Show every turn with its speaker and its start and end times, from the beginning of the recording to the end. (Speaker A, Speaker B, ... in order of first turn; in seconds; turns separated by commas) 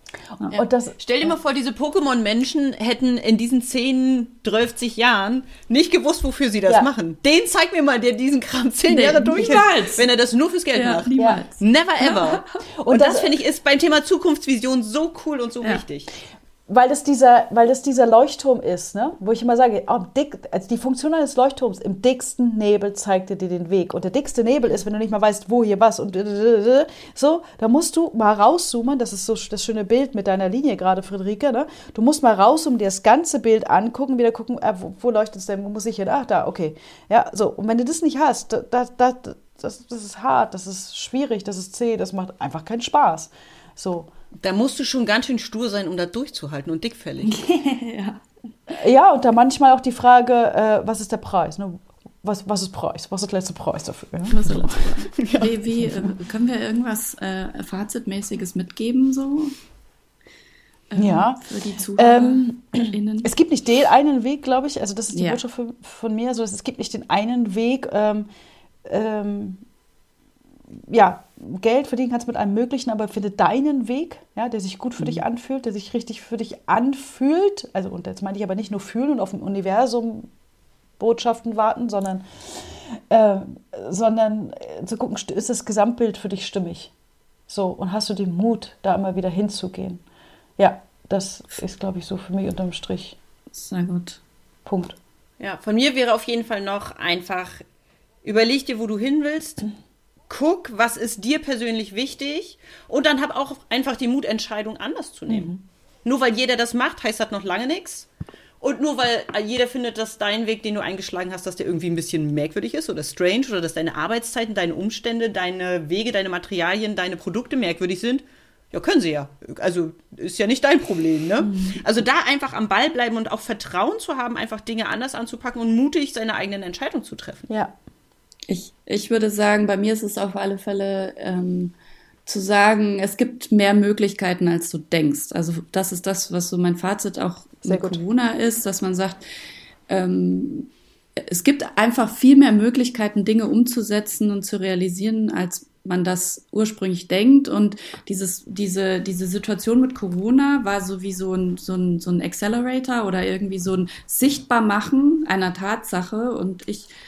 Speaker A: 0.5-1.0, Speaker B: 1.0-16.1, Speaker C: 8.9-10.1, Speaker A: 9.3-9.6, Speaker C: 10.7-12.6, Speaker A: 12.8-13.4, Speaker A: 16.7-44.1, Speaker B: 44.4-47.4, Speaker C: 47.2-48.2, Speaker A: 48.7-56.1, Speaker C: 54.3-59.5, Speaker C: 60.9-63.3, Speaker A: 61.0-61.4, Speaker A: 62.0-68.3, Speaker C: 65.1-65.4, Speaker A: 68.8-69.6, Speaker A: 70.9-80.3, Speaker A: 81.0-86.9, Speaker A: 87.5-90.0, Speaker A: 90.6-93.2, Speaker C: 93.5-94.2, Speaker A: 94.7-95.0, Speaker B: 95.4-97.6, Speaker B: 98.2-99.7, Speaker B: 100.3-105.5, Speaker A: 105.3-105.6, Speaker B: 106.0-108.1, Speaker B: 108.6-127.5, Speaker A: 121.4-121.8, Speaker A: 127.5-127.8, Speaker C: 128.5-131.7, Speaker C: 132.3-139.2, Speaker A: 137.7-138.0, Speaker C: 139.9-156.9